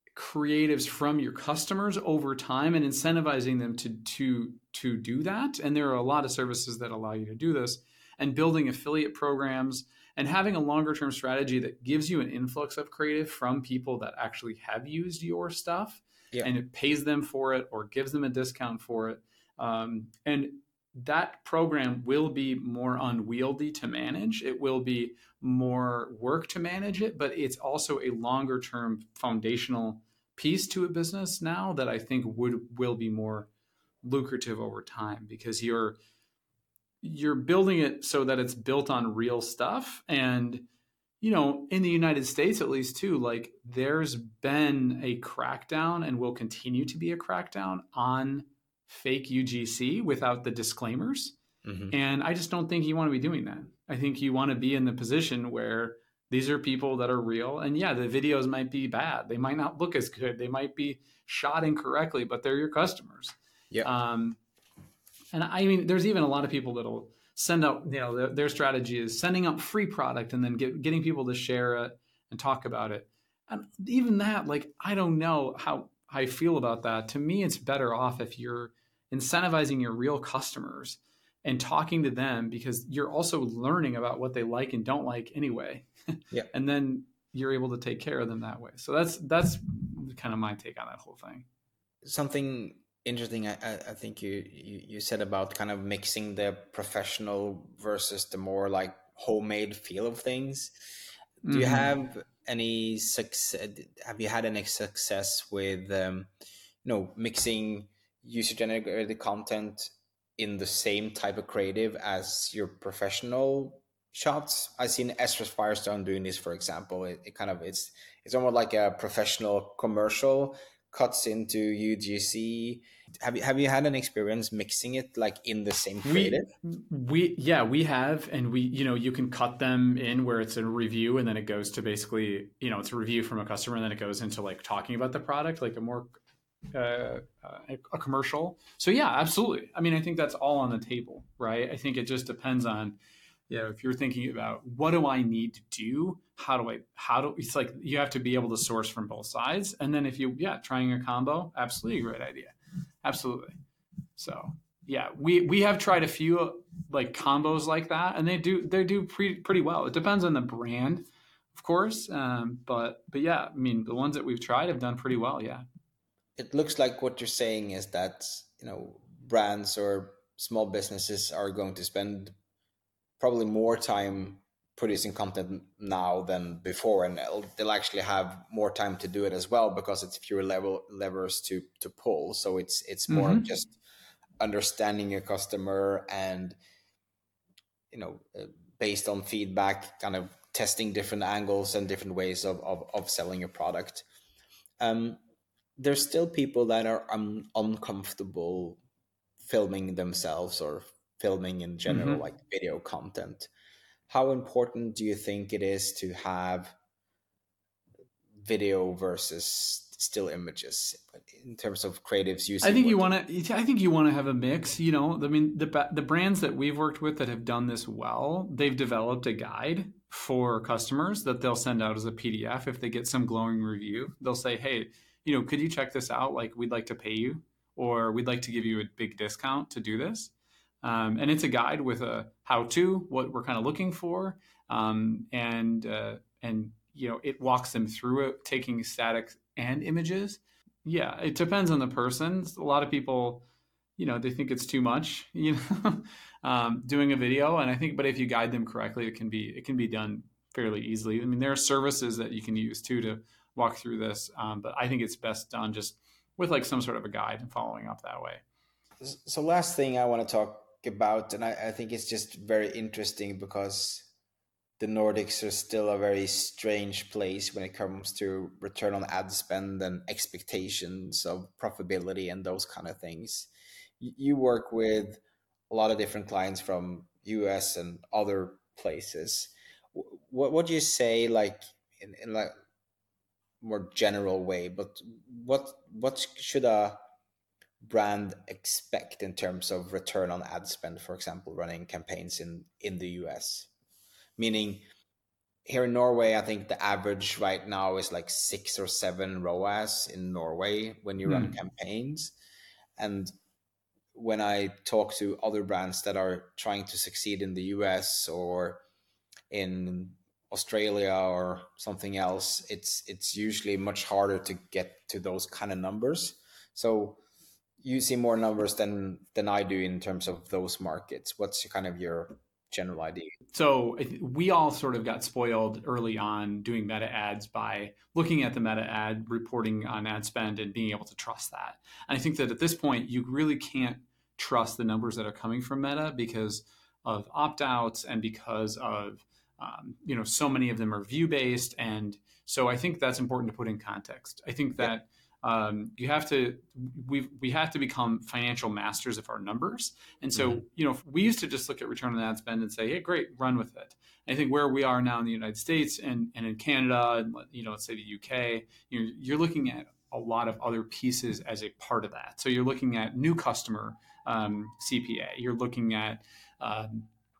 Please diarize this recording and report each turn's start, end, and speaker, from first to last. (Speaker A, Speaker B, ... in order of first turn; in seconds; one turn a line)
Speaker A: 0.1-33.5
Speaker A: 34.0-36.0
Speaker A: 37.0-40.6
Speaker A: 41.2-51.4
Speaker B: 51.6-51.9
Speaker A: 51.9-64.4
Speaker A: 65.3-91.5
Speaker B: 92.0-100.7
Speaker A: 101.4-101.9
Speaker B: 101.5-106.3
Speaker B: 106.8-126.5
Speaker A: 126.0-136.2
Speaker A: 136.7-142.9
Speaker A: 143.5-153.6
Speaker A: 154.2-165.6
Speaker B: 166.4-172.3
Speaker B: 173.2-183.8
Speaker A: 183.1-183.4
Speaker B: 184.4-186.6
Speaker B: 187.9-194.0
Speaker B: 194.8-195.2
Speaker B: 195.8-198.8
Speaker B: 199.4-203.5
Speaker A: 201.9-202.2
Speaker B: 204.1-206.7
Speaker B: 208.4-213.1
Speaker A: 212.6-243.4
Speaker A: 244.0-258.4
Speaker B: 259.0-264.1
Speaker B: 264.8-282.5
Speaker B: 283.6-287.0
Speaker B: 287.8-293.7
Speaker B: 294.4-294.8
Speaker B: 295.7-302.3
Speaker A: 301.2-301.5
Speaker B: 303.0-303.3
Speaker B: 304.1-308.8
Speaker B: 309.5-317.2
Speaker B: 317.8-323.3
Speaker A: 323.5-367.1
Speaker B: 350.3-350.6